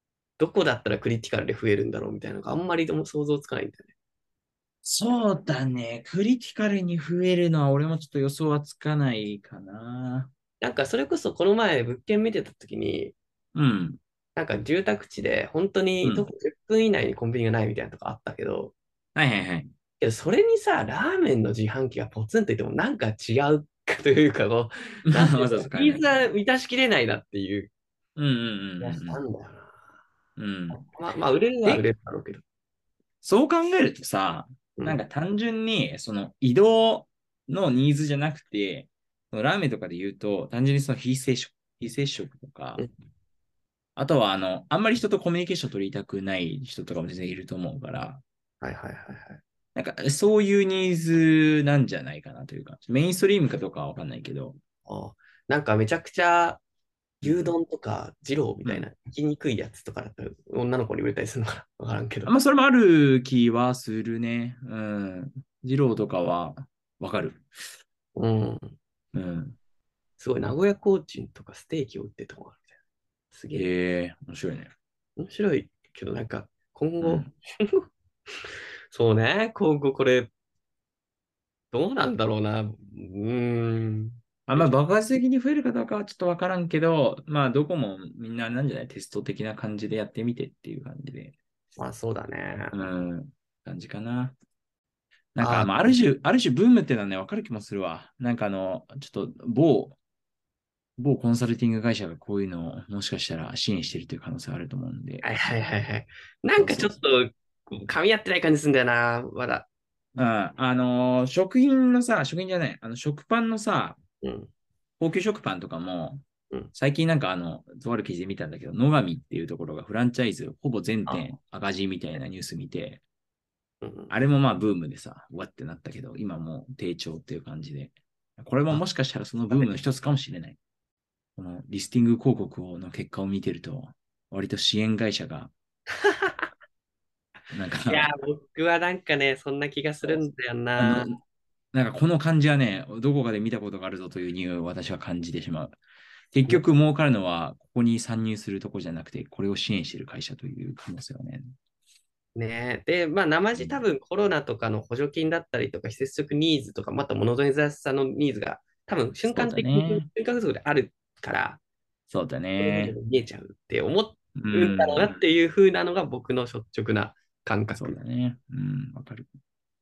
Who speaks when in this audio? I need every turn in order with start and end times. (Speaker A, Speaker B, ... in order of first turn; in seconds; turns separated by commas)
Speaker A: 0.4-3.9, Speaker B: 4.8-10.3, Speaker A: 10.6-13.1, Speaker B: 13.5-14.0, Speaker A: 14.3-18.7, Speaker B: 19.1-19.7, Speaker A: 20.0-27.7, Speaker B: 25.1-26.2, Speaker B: 28.1-29.2, Speaker A: 28.8-29.8, Speaker B: 30.4-30.8, Speaker A: 30.7-32.4, Speaker B: 33.2-42.8, Speaker A: 34.8-35.0, Speaker B: 44.0-48.2, Speaker A: 48.6-49.4, Speaker B: 49.8-54.6, Speaker A: 54.9-56.6, Speaker B: 57.2-57.5, Speaker A: 57.2-62.3, Speaker B: 62.2-67.5, Speaker A: 68.2-68.8, Speaker B: 69.1-69.6, Speaker A: 70.2-72.7, Speaker A: 73.3-73.7, Speaker B: 73.5-74.7, Speaker A: 75.2-80.3, Speaker B: 77.0-77.3, Speaker A: 81.7-84.7, Speaker B: 84.5-91.3, Speaker A: 91.8-92.8, Speaker B: 92.7-94.3, Speaker B: 95.3-100.0, Speaker A: 95.4-96.0, Speaker B: 101.0-105.2, Speaker A: 105.2-109.7, Speaker B: 106.5-106.9, Speaker B: 110.2-114.0, Speaker A: 114.2-114.5, Speaker B: 115.0-123.0, Speaker A: 123.8-124.1, Speaker B: 124.1-130.6, Speaker B: 131.3-135.5, Speaker A: 136.0-136.5, Speaker B: 137.5-138.1, Speaker A: 137.9-141.1, Speaker B: 140.8-141.2, Speaker B: 141.7-145.8, Speaker B: 146.3-151.5, Speaker A: 152.3-161.6, Speaker B: 153.5-153.8, Speaker B: 159.3-160.1, Speaker B: 162.1-163.0, Speaker A: 162.6-168.0, Speaker B: 164.3-165.1, Speaker B: 167.8-169.3